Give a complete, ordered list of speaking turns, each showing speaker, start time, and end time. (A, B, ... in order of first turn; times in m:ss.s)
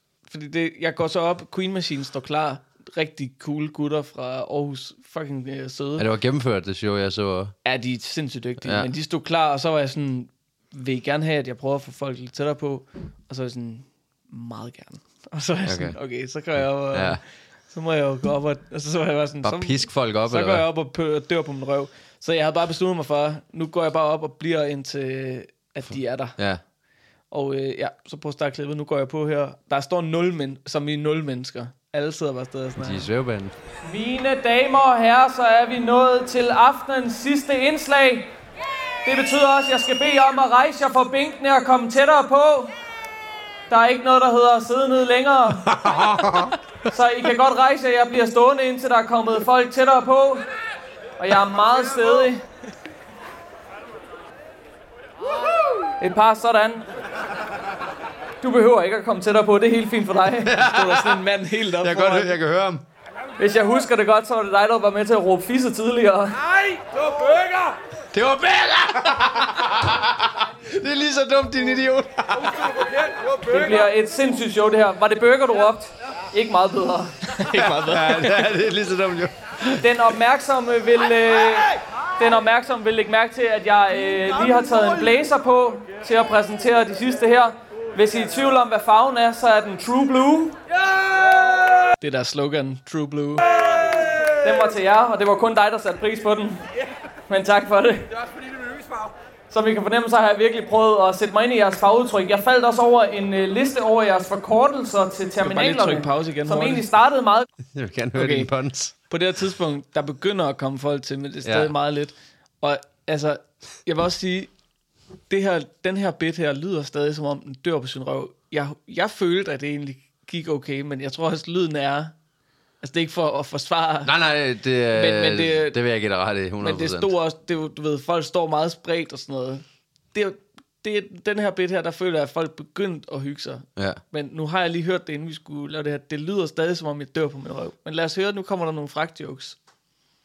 0:00.3-0:06.0 A
0:06.0-0:07.5 B
0:07.6-0:26.4 A
0:08.6-0:08.9 B
0:15.6-0:16.0 B
0:16.6-0:17.2 B
0:19.4-0:20.6 B
0:26.4-0:26.6 B
0:27.3-0:33.1 A
0:32.8-0:33.5 B
0:33.8-0:38.3 C
0:39.0-0:42.7 C
0:43.7-0:45.7 C
0:45.7-0:46.5 B
0:46.9-0:50.4 C
0:51.2-0:52.4 C
0:56.0-0:56.8 C
0:58.4-1:00.5 C
1:00.4-1:01.3 B
1:00.5-1:02.4 A
1:01.8-1:02.8 B
1:03.4-1:06.4 C
1:08.1-1:12.9 B
1:13.5-1:17.4 C
1:17.4-1:18.4 A
1:17.5-1:19.9 B
1:19.8-1:30.6 C
1:32.0-1:33.5 A
1:34.3-1:36.6 C
1:37.3-1:38.1 C
1:39.5-1:47.5 C
1:45.4-1:46.8 A
1:47.7-1:48.9 B
1:48.1-1:48.5 A
1:49.1-1:54.5 A
1:51.4-1:51.7 B
1:55.3-2:02.1 A
2:02.8-2:04.1 A
2:04.0-2:07.1 B
2:04.9-2:05.8 A
2:06.6-2:19.6 A
2:13.8-2:14.0 B